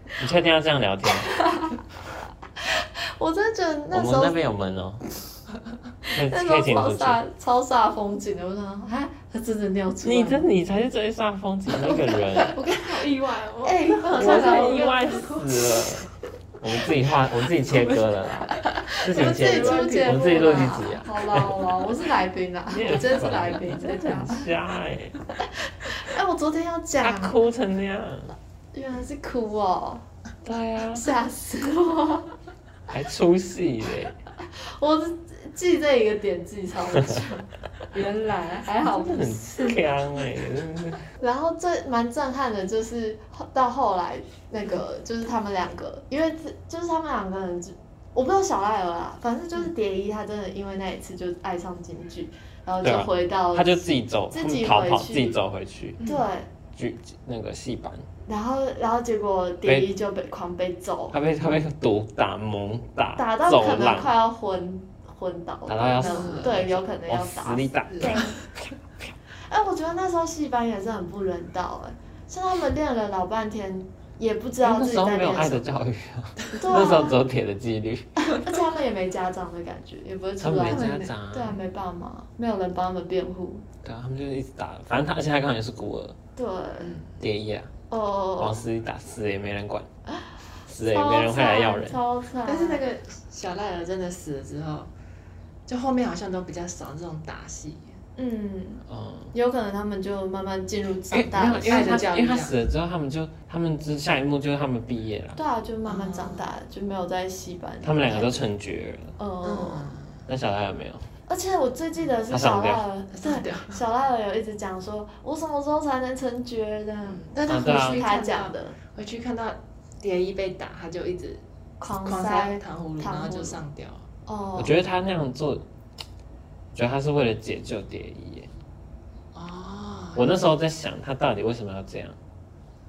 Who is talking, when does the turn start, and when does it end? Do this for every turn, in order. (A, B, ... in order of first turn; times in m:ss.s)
0:00.2-0:01.3 A
0:01.3-0:01.8 B
0:02.6-0:04.3 B
0:03.9-0:05.1 A
0:06.1-0:10.4 B
0:06.1-0:07.2 A
0:10.0-0:12.6 A
0:12.4-0:15.8 C
0:13.6-0:15.3 B
0:14.1-0:16.1 A
0:16.6-0:21.6 A
0:17.5-0:20.9 C
0:19.0-0:24.5 B
0:22.7-0:25.2 A
0:25.4-0:27.4 B
0:27.0-0:28.3 A
0:28.7-0:30.0 B
0:30.4-0:31.1 A
0:30.9-0:32.3 B
0:32.9-0:34.1 A
0:34.5-0:40.1 B
0:38.8-0:41.0 A
0:41.2-0:55.4 B
0:52.8-0:56.0 A
0:56.0-0:56.3 C
0:56.0-0:56.5 B
0:56.7-0:58.0 A
0:58.2-1:01.2 B
0:59.6-0:59.9 A
1:01.1-1:04.1 A
1:03.2-1:08.4 B
1:05.7-1:09.1 A
1:06.0-1:06.6 C
1:07.9-1:08.3 C
1:09.5-1:15.8 B
1:14.6-1:18.2 A
1:16.5-1:17.2 B
1:18.2-1:23.6 B
1:20.4-1:21.6 A
1:20.6-1:21.1 C
1:23.8-1:26.2 A
1:26.4-1:27.0 B
1:26.8-1:27.2 C
1:27.2-1:27.7 A
1:27.9-1:28.6 B
1:28.4-1:29.9 A
1:30.1-1:30.3 B
1:30.7-1:32.0 A
1:30.8-1:32.8 B
1:32.4-1:34.9 C
1:35.7-1:38.0 C
1:38.2-1:42.1 B
1:38.9-1:39.3 A
1:41.1-1:45.4 A
1:41.4-1:42.6 C
1:45.4-1:48.4 B
1:45.8-1:46.5 C
1:47.8-1:49.1 A
1:49.2-1:49.9 B
1:49.4-1:50.2 C
1:50.3-1:51.0 A
1:51.3-1:58.8 B
1:52.3-1:52.8 A
1:53.1-1:53.8 C
1:57.1-2:01.4 C
1:57.5-1:58.0 A
2:01.8-2:03.6 B
2:02.0-2:04.1 C
2:04.2-2:04.8 B
2:04.6-2:05.6 A
2:06.7-2:08.5 A
2:09.3-2:10.4 C
2:10.1-2:12.2 A